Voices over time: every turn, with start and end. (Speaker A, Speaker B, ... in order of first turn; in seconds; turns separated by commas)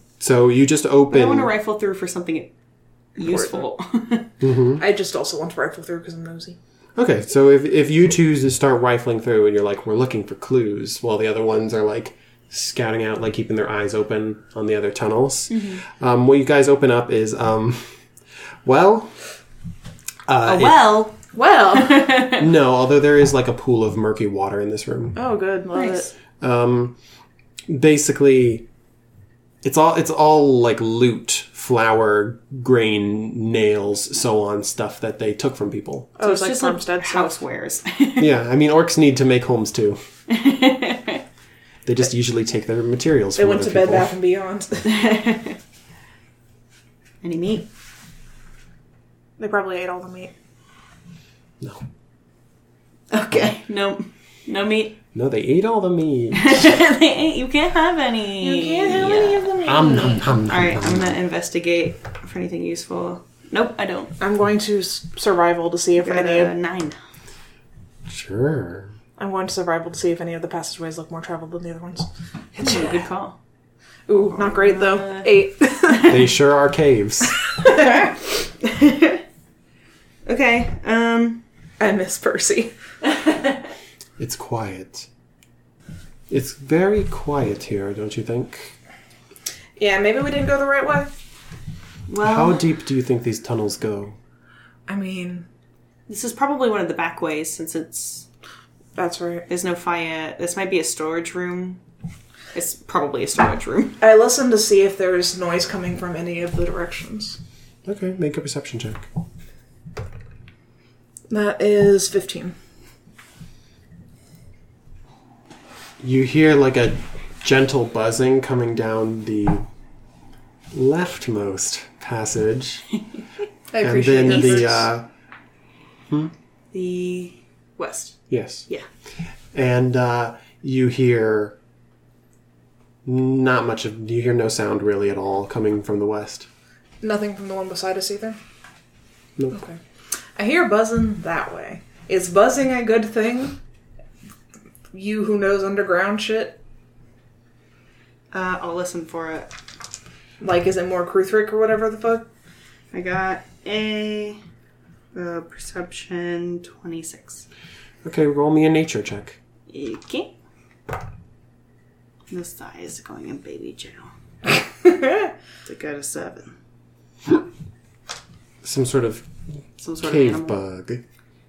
Speaker A: 0.2-1.5, Speaker B: 1.1-2.5, Speaker B: 3.2-4.3, Speaker C: 3.2-3.6, Speaker A: 4.4-4.8, Speaker C: 4.8-6.6, Speaker A: 7.0-18.0, Speaker B: 15.5-15.8, Speaker A: 18.6-19.2, Speaker A: 20.3-21.1, Speaker B: 20.4-21.2, Speaker C: 21.3-22.3, Speaker B: 21.7-22.4, Speaker A: 22.2-25.2, Speaker C: 25.1-26.1, Speaker B: 25.7-26.1, Speaker A: 26.4-27.0, Speaker A: 27.7-28.7, Speaker A: 29.6-36.1, Speaker C: 36.2-37.4, Speaker B: 36.2-38.3, Speaker A: 38.2-40.0, Speaker B: 40.3-41.2, Speaker A: 41.9-44.1, Speaker C: 43.4-45.1, Speaker B: 44.9-45.6, Speaker B: 47.2-47.7, Speaker C: 49.4-50.3, Speaker A: 51.6-51.9, Speaker B: 53.1-55.0, Speaker A: 55.1-56.6, Speaker B: 56.3-59.5, Speaker C: 58.4-60.3, Speaker A: 59.6-61.2, Speaker B: 60.5-64.1, Speaker C: 64.2-66.5, Speaker B: 66.0-67.0, Speaker A: 68.1-68.9, Speaker C: 69.2-72.1, Speaker B: 72.5-73.4, Speaker C: 72.6-72.9, Speaker C: 74.1-76.2, Speaker B: 74.3-75.4, Speaker A: 76.1-77.3, Speaker C: 77.7-78.0, Speaker B: 78.6-79.2, Speaker B: 80.3-81.4, Speaker C: 81.8-82.7, Speaker A: 84.2-85.1, Speaker A: 86.3-88.8, Speaker C: 89.8-91.1, Speaker B: 92.1-92.6, Speaker A: 92.2-94.2, Speaker C: 94.9-95.5, Speaker B: 96.1-98.3, Speaker C: 99.0-99.5, Speaker B: 99.5-101.8, Speaker B: 102.5-104.0, Speaker C: 104.0-107.4, Speaker A: 107.8-109.1, Speaker C: 111.3-112.5, Speaker A: 116.0-119.7, Speaker A: 120.7-122.9, Speaker C: 123.7-124.9, Speaker A: 123.8-125.1, Speaker B: 124.3-124.7, Speaker B: 126.7-128.9, Speaker A: 128.3-128.7, Speaker A: 129.5-131.6, Speaker A: 133.1-136.5, Speaker C: 137.0-138.4, Speaker C: 139.5-139.8, Speaker C: 140.4-143.6, Speaker C: 144.9-146.6, Speaker B: 148.3-149.5, Speaker C: 150.4-152.3, Speaker B: 152.9-154.4, Speaker B: 155.1-157.4, Speaker A: 158.0-159.4, Speaker B: 159.7-160.3, Speaker B: 162.3-164.1, Speaker C: 164.8-165.3, Speaker B: 165.7-166.5, Speaker A: 168.6-169.3, Speaker B: 169.8-170.6, Speaker A: 170.0-171.0